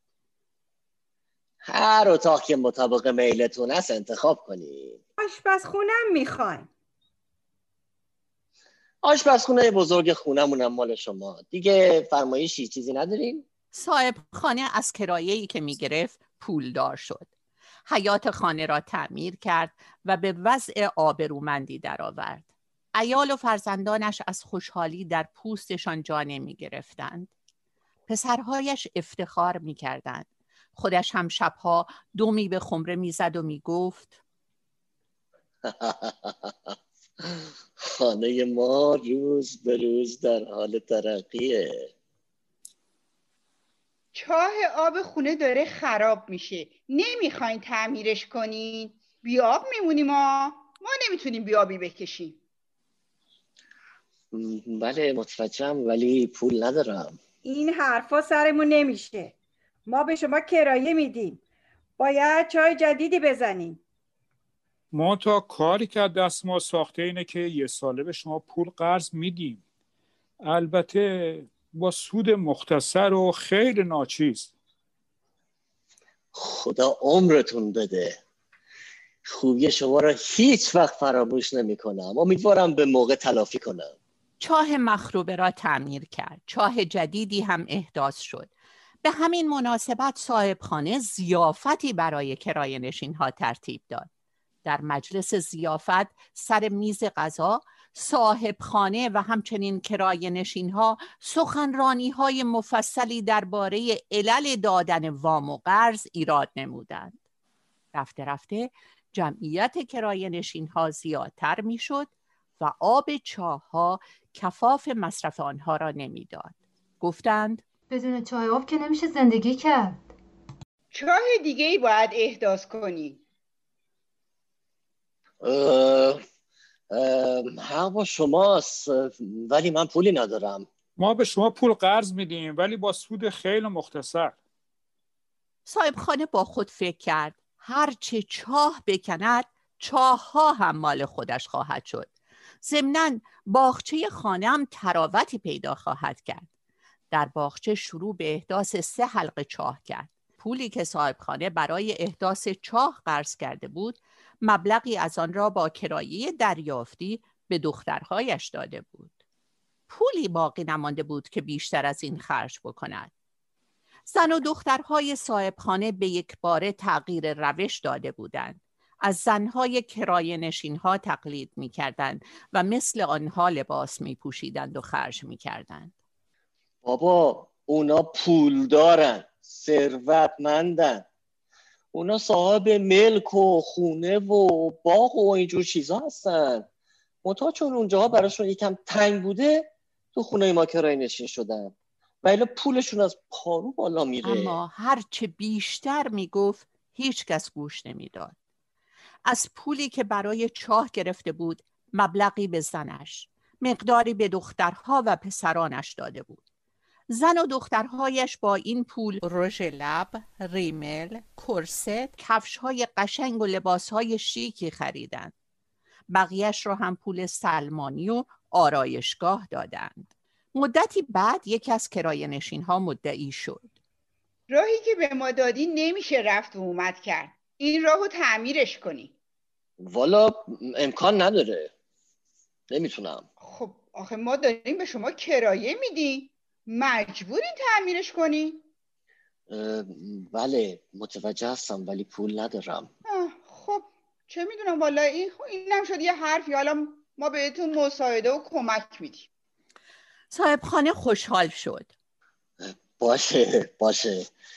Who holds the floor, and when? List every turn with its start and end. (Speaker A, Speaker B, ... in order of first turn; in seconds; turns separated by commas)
Speaker A: 1.6-5.0, Speaker B: 5.2-6.7, Speaker A: 9.0-13.4, Speaker C: 13.7-17.3, Speaker C: 17.9-27.3, Speaker C: 28.1-34.2, Speaker A: 35.6-36.5, Speaker A: 37.2-41.9, Speaker D: 44.1-52.4, Speaker A: 54.3-57.2, Speaker B: 57.5-59.3, Speaker B: 59.9-61.4, Speaker B: 62.0-63.8, Speaker E: 64.9-69.6, Speaker E: 70.4-74.5, Speaker A: 76.3-78.2, Speaker A: 79.3-83.9, Speaker C: 84.4-88.5, Speaker C: 89.0-94.1, Speaker C: 94.7-107.2, Speaker C: 107.9-117.6, Speaker F: 117.9-120.0, Speaker D: 120.9-123.2, Speaker A: 125.4-126.2, Speaker A: 126.9-130.7, Speaker E: 131.0-134.3, Speaker C: 135.7-142.1, Speaker C: 142.6-146.5, Speaker C: 147.1-159.1, Speaker C: 159.9-163.1, Speaker C: 164.1-175.9, Speaker A: 176.8-181.1, Speaker A: 181.9-186.7, Speaker A: 187.2-194.6, Speaker C: 194.2-198.3, Speaker C: 199.3-206.4, Speaker C: 207.1-215.3, Speaker C: 216.1-223.7, Speaker D: 224.5-229.1, Speaker A: 229.9-231.7, Speaker A: 232.7-233.3, Speaker D: 233.4-238.6, Speaker A: 239.5-242.9, Speaker D: 243.1-249.3, Speaker C: 250.3-251.9, Speaker A: 252.6-254.3